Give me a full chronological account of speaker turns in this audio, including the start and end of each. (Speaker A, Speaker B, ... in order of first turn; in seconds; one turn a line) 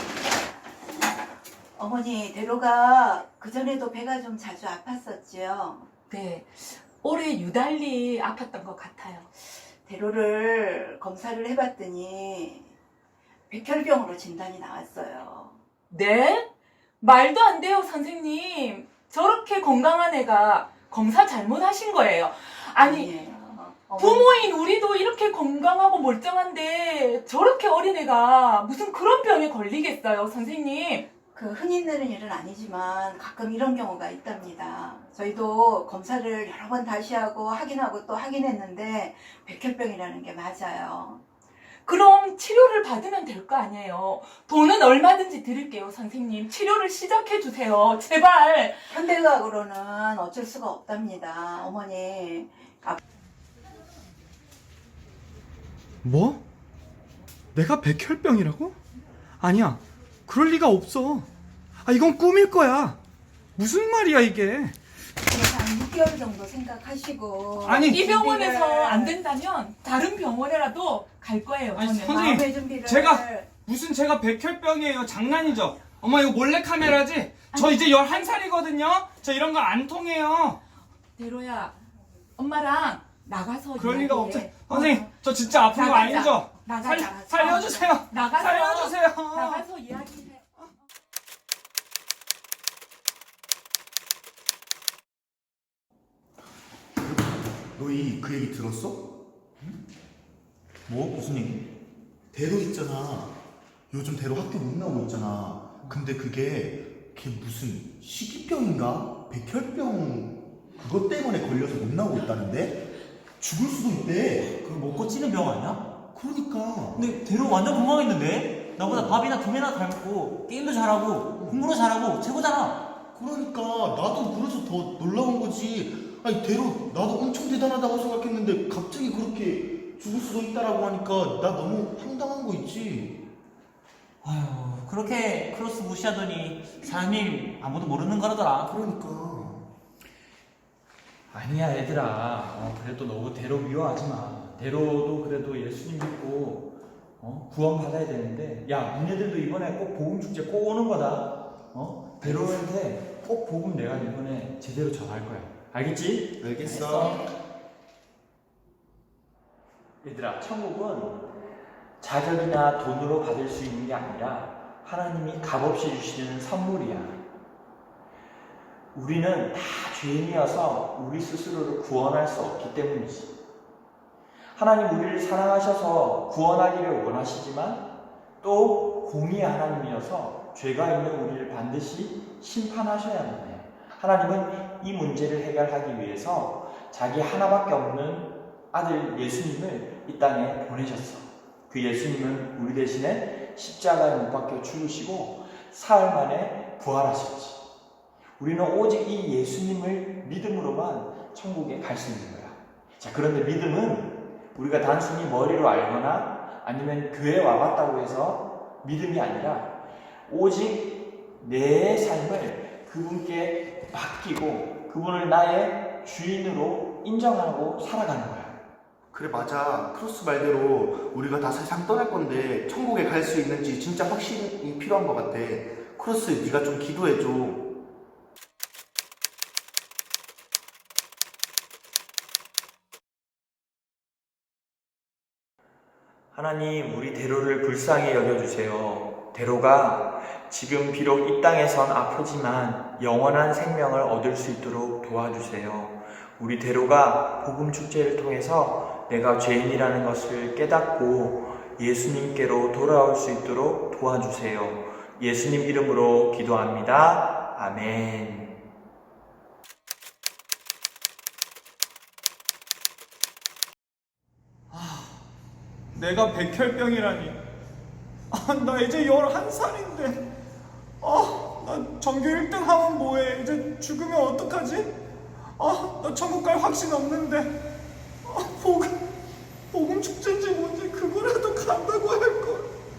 Speaker A: 1.8-5.9
Speaker B: 6.1-9.4
Speaker A: 9.9-12.7
Speaker A: 13.5-15.6
Speaker B: 15.9-16.5
Speaker B: 17.0-23.1
Speaker A: 22.8-24.4
Speaker B: 24.0-31.1
Speaker A: 31.3-41.2
Speaker B: 41.9-49.0
Speaker A: 48.9-53.0
Speaker C: 56.0-56.4
Speaker C: 57.5-58.8
Speaker C: 59.4-61.3
Speaker C: 61.8-63.0
Speaker C: 63.6-64.7
Speaker A: 65.2-69.2
Speaker C: 67.6-68.0
Speaker B: 67.7-72.5
Speaker C: 71.7-80.6
Speaker A: 72.1-73.5
Speaker B: 77.5-77.9
Speaker B: 81.2-81.8
Speaker B: 82.4-90.4
Speaker C: 83.8-89.7
Speaker D: 97.0-99.1
Speaker D: 100.9-101.7
Speaker D: 102.3-103.3
Speaker D: 103.9-112.8
Speaker D: 113.4-114.6
Speaker E: 114.5-115.8
Speaker D: 116.1-117.1
Speaker E: 116.9-122.8
Speaker D: 118.8-119.2
Speaker D: 121.3-121.6
Speaker D: 123.2-133.2
Speaker E: 134.2-138.8
Speaker D: 138.7-139.7
Speaker F: 141.3-157.3
Speaker D: 156.4-157.3
Speaker F: 160.0-161.3
Speaker F: 162.0-167.3
Speaker F: 168.9-173.3
Speaker F: 174.6-197.6
Speaker F: 198.4-218.6
Speaker D: 219.1-227.7
Speaker F: 236.3-258.6
Speaker C: 264.7-265.1
Speaker C: 265.9-267.4
Speaker C: 268.3-270.2
Speaker C: 271.0-274.9
Speaker C: 275.6-277.5
Speaker C: 278.3-278.9
Speaker C: 279.7-282.6